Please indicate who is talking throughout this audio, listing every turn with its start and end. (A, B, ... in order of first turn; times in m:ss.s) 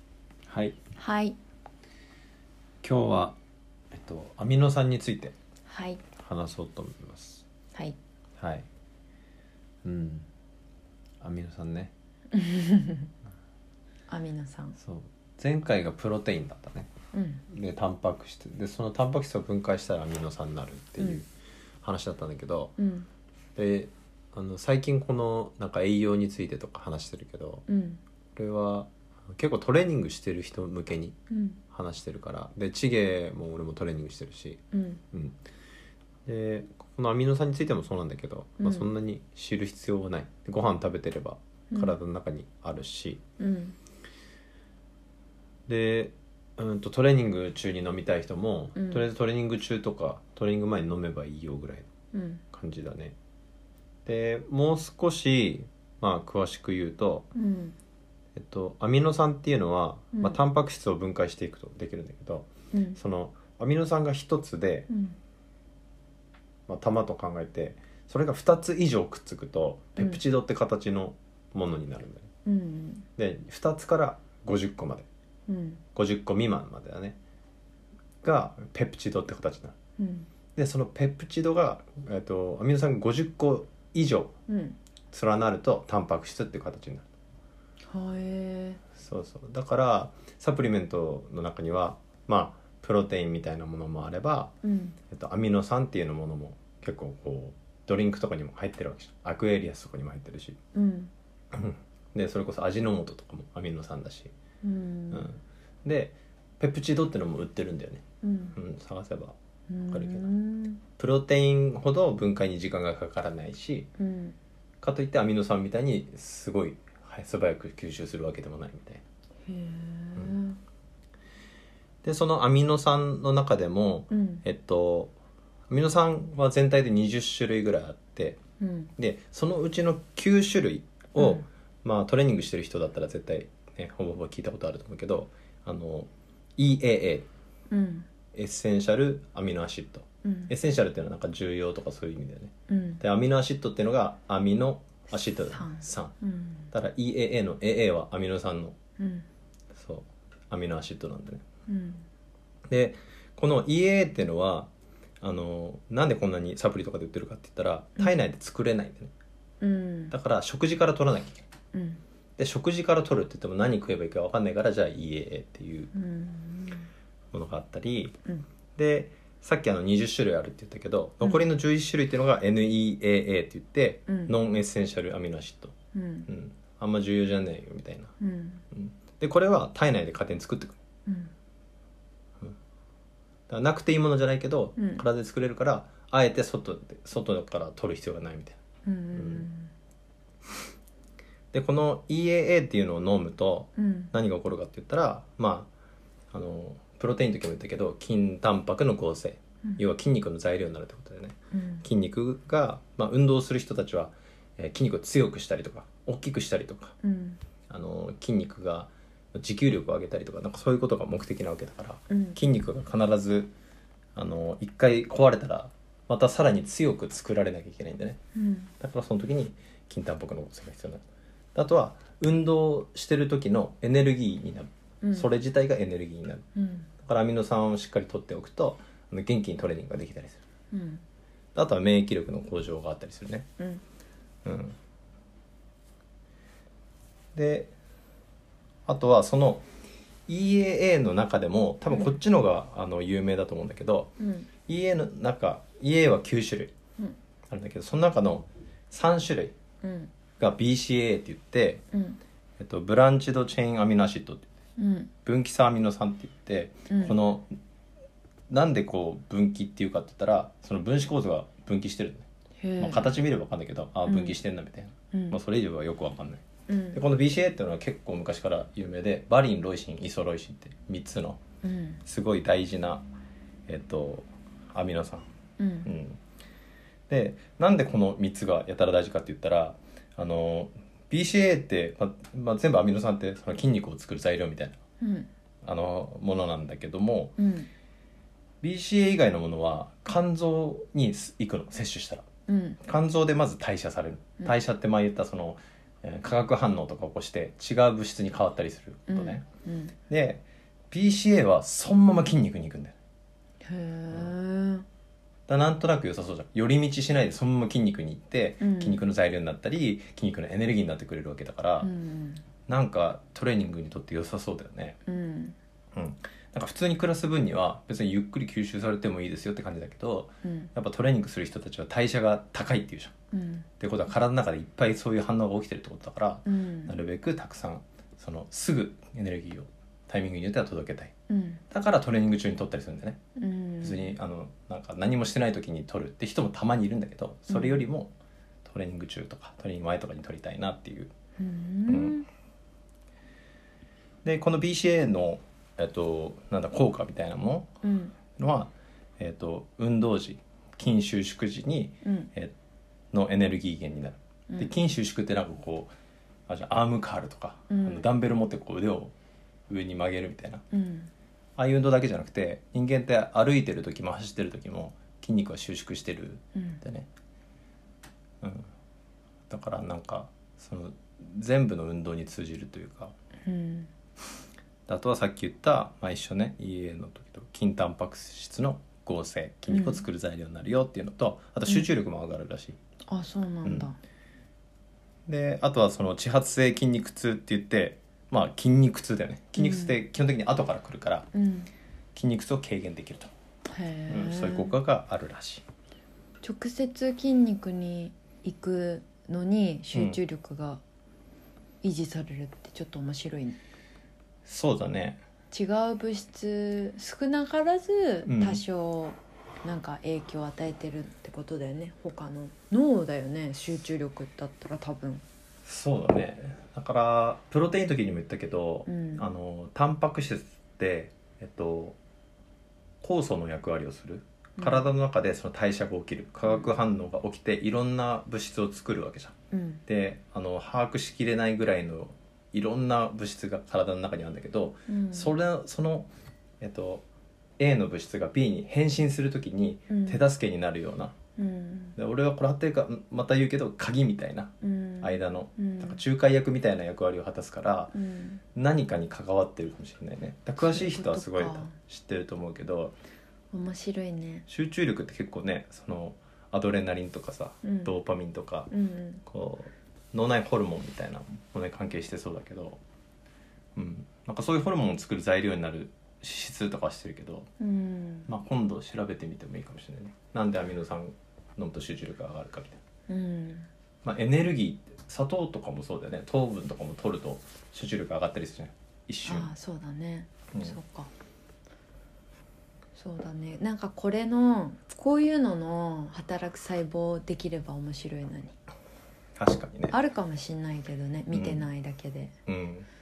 0:00.5-0:00.8 A
0:01.0-0:01.4 B
0:02.8-0:03.4 A
0:03.9-0:05.4 A
0:05.7-0:06.0 B
0:06.2-0:07.4 A
0:08.4-0:08.7 A
0:09.8-0:10.3 A
0:11.2-0:11.9 A
0:12.3-0:13.1 B
0:14.1-0:14.8 B
0:14.8-0:16.9 A
0:17.1-0:17.4 B
0:17.5-0:21.3 A
0:21.8-0:22.8 A
0:22.8-0:23.1 B
0:23.6-0:27.6 A
0:27.7-0:28.0 B
0:28.4-0:31.2 A
0:31.3-0:31.6 B
0:31.7-0:35.4 A
0:34.7-0:35.0 B
0:36.3-0:43.2 A
0:38.6-0:38.9 B
0:41.7-0:42.0 B
0:43.4-0:43.8 B
0:45.7-0:51.9 A
0:48.8-0:49.0 B
0:52.1-0:52.4 B
0:52.5-0:53.2 A
0:54.1-0:57.3 A
0:57.4-0:57.8 B
0:58.4-1:04.9 A
1:00.1-1:00.4 B
1:02.7-1:03.0 B
1:04.9-1:05.2 B
1:06.7-1:12.3 A
1:12.4-1:13.1 B
1:13.2-1:15.1 A
1:15.5-1:15.8 B
1:16.0-1:17.2 A
1:18.2-1:19.8 A
1:20.0-1:20.3 B
1:20.6-1:24.4 A
1:24.5-1:24.8 B
1:25.1-1:27.1 A
1:27.9-1:28.8 B
1:29.0-1:34.5 A
1:34.6-1:35.0 B
1:35.1-1:40.6 A
1:40.7-1:41.1 B
1:41.5-1:44.3 A
1:44.6-1:45.3 B
1:45.1-1:48.0 A
1:48.2-1:48.6 B
1:48.6-1:49.4 A
1:49.7-1:50.8 B
1:49.9-1:50.3 A
1:51.0-1:53.9 A
1:54.0-1:54.4 B
1:54.8-1:59.0 A
1:59.5-2:00.6 B
2:02.0-2:05.1 A
2:04.1-2:04.4 B
2:05.7-2:08.4 A
2:08.6-2:08.9 B
2:09.0-2:17.3 A
2:11.2-2:11.5 B
2:17.7-2:18.1 B
2:18.3-2:26.1 A
2:20.2-2:20.5 B
2:22.7-2:23.0 B
2:25.3-2:26.7 B
2:26.7-2:28.8 A
2:29.0-2:29.3 B
2:29.7-2:31.4 A
2:31.7-2:32.1 B
2:32.7-2:34.7 A
2:35.2-2:39.1 A
2:39.6-2:40.2 B
2:40.1-2:41.4 A
2:41.7-2:42.0 B
2:42.4-2:45.9 A
2:45.9-2:46.9 B
2:47.3-2:48.2 A
2:48.8-2:55.8 A
2:51.2-2:51.5 B
2:54.1-2:54.4 B
2:55.9-2:56.3 B
2:56.3-2:58.1 A
2:58.2-2:58.6 B
2:58.7-3:00.8 A
3:01.1-3:01.3 B
3:03.5-3:08.6 A
3:04.8-3:05.0 B
3:08.8-3:09.7 B
3:09.2-3:09.5 A
3:11.5-3:15.7 A
3:13.8-3:14.1 B
3:16.3-3:27.0 A
3:21.5-3:21.8 B
3:27.0-3:27.4 B
3:27.7-3:33.5 A
3:32.1-3:32.4 B
3:34.2-3:38.2 A
3:38.4-3:38.7 B
3:38.8-3:41.0 A
3:41.6-3:46.4 A
3:45.0-3:45.3 B
3:46.6-3:46.9 B
3:47.0-3:50.4 A
3:50.7-3:51.0 B
3:51.6-3:53.5 A
3:54.4-3:54.8 A
3:57.3-3:57.7 A
3:58.9-3:59.6 A
4:00.3-4:04.1 A
4:01.9-4:02.2 B
4:04.2-4:04.5 B
4:04.7-4:06.7 A
4:07.5-4:09.6 A
4:09.8-4:10.1 B
4:10.4-4:11.8 A
4:11.9-4:12.2 B
4:12.6-4:14.5 A
4:14.8-4:15.1 B
4:15.3-4:17.5 A
4:16.9-4:17.2 B
4:18.5-4:22.3 A
4:22.6-4:23.2 B
4:22.8-4:31.4 A
4:24.1-4:24.4 B
4:25.1-4:25.4 B
4:26.7-4:27.0 B
4:31.6-4:32.0 B
4:32.1-4:33.0 A
4:33.7-4:35.3 A
4:35.6-4:35.9 B
4:35.8-4:36.2 A
4:37.1-4:44.8 A
4:45.0-4:45.3 B
4:45.6-4:47.4 A
4:47.4-4:47.7 B
4:48.6-4:52.2 A
4:52.5-4:52.8 B
4:52.8-4:59.4 A
4:59.1-5:00.0 B
5:00.1-5:03.0 A
5:03.6-5:04.9 B
5:05.5-5:11.9 A
5:08.6-5:09.0 B
5:11.8-5:12.4 B
5:12.7-5:15.0 A
5:15.1-5:15.6 B
5:15.9-5:23.1 A
5:20.4-5:20.7 B
5:23.3-5:23.7 B
5:23.8-5:31.1 A
5:26.5-5:26.9 B
5:31.3-5:31.6 B
5:31.7-5:33.2 A
5:33.4-5:34.2 B
5:33.8-5:38.1 A
5:37.5-5:37.9 B
5:38.6-5:41.1 A
5:41.4-5:42.3 B
5:41.9-5:42.2 A
5:44.2-5:47.7 A
5:47.8-5:48.2 B
5:48.4-5:52.5 A
5:52.0-5:52.3 B
5:53.1-5:55.9 A
5:56.5-5:59.1 A
5:57.7-5:58.1 B
5:59.7-6:00.6 A
6:00.7-6:01.1 B
6:01.6-6:07.1 A
6:06.6-6:06.8 B
6:08.4-6:08.7 A
6:09.5-6:13.2 A
6:13.4-6:13.9 B
6:14.9-6:22.8 A
6:19.7-6:20.0 B
6:23.1-6:24.0 B
6:25.3-6:31.3 A
6:29.6-6:30.0 B
6:31.3-6:31.7 B
6:32.2-6:33.3 A
6:33.7-6:34.7 B
6:34.1-6:35.6 A
6:36.4-6:40.8 B
6:39.9-6:40.2 A
6:41.8-6:43.6 B
6:44.5-6:45.2 A
6:45.5-6:55.2 B
6:48.2-6:48.6 A
6:55.6-7:02.0 A
6:58.9-6:59.3 B
7:03.0-7:09.4 A
7:04.6-7:04.9 B
7:09.5-7:09.8 B
7:09.9-7:16.1 A
7:14.9-7:15.3 B
7:16.6-7:17.0 A
7:17.6-7:21.2 A
7:19.9-7:20.2 B
7:21.4-7:22.0 B
7:22.0-7:28.0 A
7:24.6-7:26.0 B
7:27.9-7:28.4 B
7:28.6-7:32.9 A
7:30.6-7:31.8 B
7:33.5-7:34.5 B
7:34.5-7:38.7 A
7:37.6-7:38.0 B
7:38.7-7:39.2 B
7:39.3-7:42.8 A
7:43.8-7:47.5 A
7:47.6-7:48.3 B
7:48.3-7:52.8 A
7:53.1-7:53.7 B
7:54.0-7:59.5 A
7:59.2-8:01.1 B
8:03.0-8:08.6 B
8:09.4-8:10.0 A
8:09.9-8:12.3 B
8:11.3-8:11.6 A
8:12.5-8:12.9 A